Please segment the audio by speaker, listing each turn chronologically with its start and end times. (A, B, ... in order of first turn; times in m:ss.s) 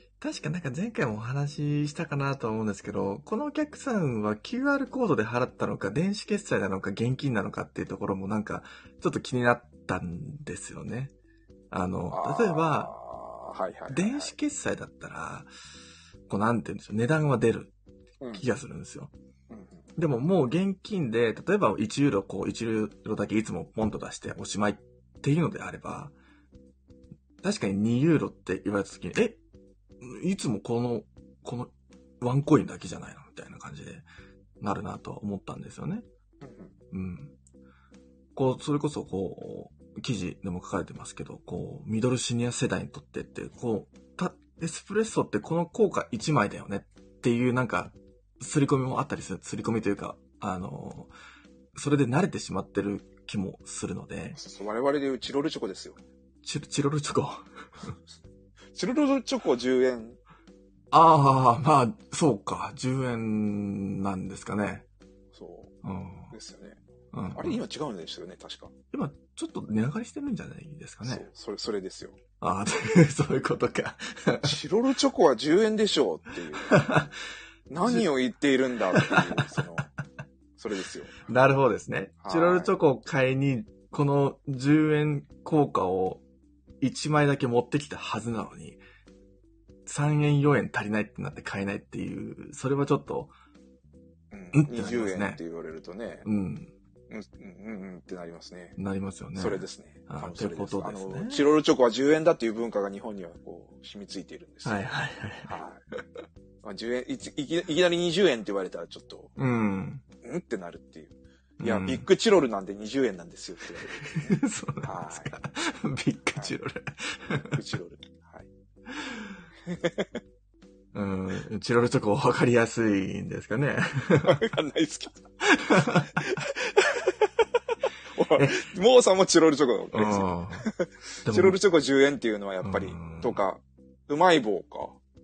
0:00.2-0:11.1 A
0:11.7-0:12.9 A
0:12.1-0:14.4 B
0:13.9-0:15.5 A
0:16.3-0:17.7 A
0:18.3-0:19.1 A
0:19.5-0:19.9 B
0:20.0-0:26.1 A
0:27.4-0:29.4 A
0:30.0-0:34.1 A
0:34.6-0:36.0 A
0:36.4-0:36.8 B
0:36.9-0:37.3 A
0:38.4-0:51.1 A
0:51.8-0:54.4 A
0:54.4-0:56.0 B
0:56.4-0:57.9 A
0:58.7-1:00.2 B
1:00.9-1:04.9 A
1:05.3-1:05.8 B
1:05.8-1:06.3 A
1:06.3-1:06.8 B
1:07.1-1:07.6 A
1:07.4-1:08.7 B
1:08.9-1:11.3 A
1:11.0-1:12.2 B
1:12.4-1:14.6 A
1:14.4-1:17.0 B
1:16.6-1:17.2 A
1:17.7-1:19.9 B
1:18.9-1:19.6 A
1:20.6-1:21.3 B
1:21.3-1:26.2 A
1:22.2-1:22.8 B
1:26.8-1:28.8 A
1:29.9-1:33.3 A
1:34.3-1:36.3 B
1:34.5-1:35.4 A
1:36.2-1:36.7 A
1:37.1-1:38.8 B
1:38.8-1:41.4 A
1:39.4-1:44.8 B
1:44.6-1:45.6 A
1:45.5-1:45.8 B
1:46.6-1:49.3 B
1:49.4-1:50.0 A
1:50.2-1:55.3 B
1:51.6-1:52.1 A
1:54.0-1:57.6 A
1:57.5-1:58.5 B
1:59.0-1:59.3 A
1:59.6-2:00.2 B
2:00.9-2:04.4 A
2:04.2-2:05.2 B
2:05.5-2:06.2 A
2:05.8-2:07.5 B
2:08.1-2:15.0 B
2:08.3-2:08.6 A
2:09.9-2:10.7 A
2:11.2-2:11.6 A
2:12.6-2:13.4 A